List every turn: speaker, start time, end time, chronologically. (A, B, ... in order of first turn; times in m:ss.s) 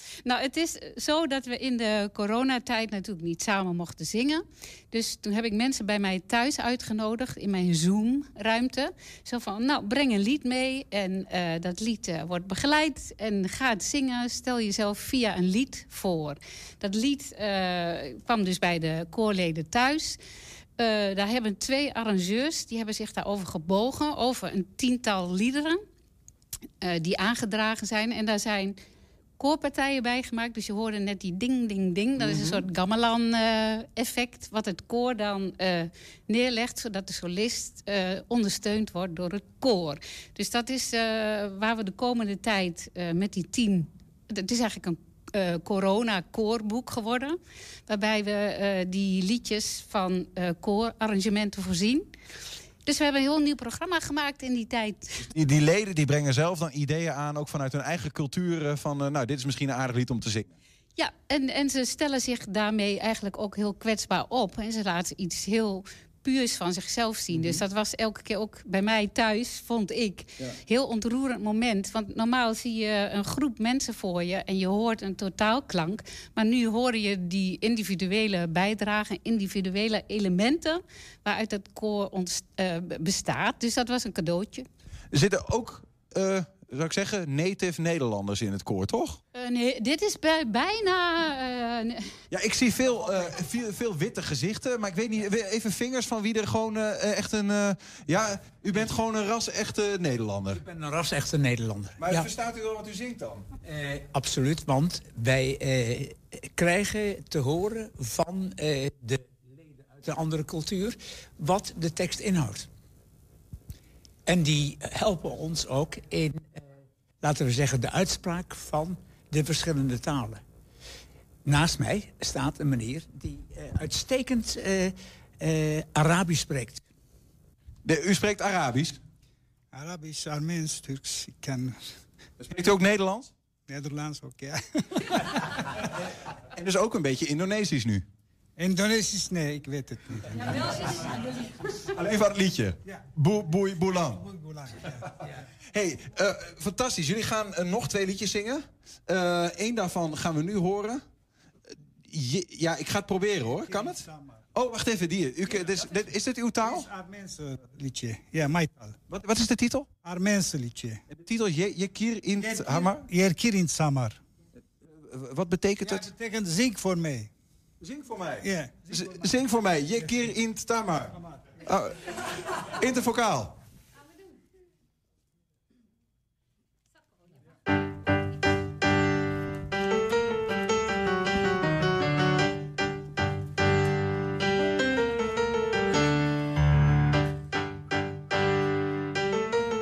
0:00.2-0:20.2 A
0:20.8-0:25.8 A
0:26.8-0:28.8 A
0:29.4-0:52.1 A
0:32.2-0:32.6 B
0:52.9-0:55.2 A
0:55.2-1:00.5 B
1:01.0-1:24.7 A
1:07.3-1:07.6 B
1:25.1-1:29.2 B
1:29.4-1:32.2 A
1:32.3-1:40.6 B
1:40.5-1:42.3 C
1:42.0-1:43.5 B
1:43.6-1:52.7 C
1:54.3-1:56.6 C
1:57.2-2:00.4 C
2:01.4-2:06.8 C
2:07.8-2:09.0 B
2:09.7-2:12.0 D
2:12.4-2:13.3 B
2:13.7-2:15.5 D
2:16.5-2:18.0 B
2:18.6-2:21.0 D
2:21.8-2:24.2 B
2:24.0-2:25.1 D
2:25.7-2:31.0 B
2:31.7-2:36.9 B
2:33.6-2:34.4 D
2:35.7-2:36.1 D
2:36.6-2:39.0 D
2:39.1-2:39.9 B
2:40.0-2:41.0 D
2:41.1-2:43.1 B
2:42.4-2:44.2 D
2:44.9-2:46.1 B
2:45.8-2:47.3 D
2:47.8-2:52.0 B
2:48.4-2:49.3 D
2:52.7-2:53.6 B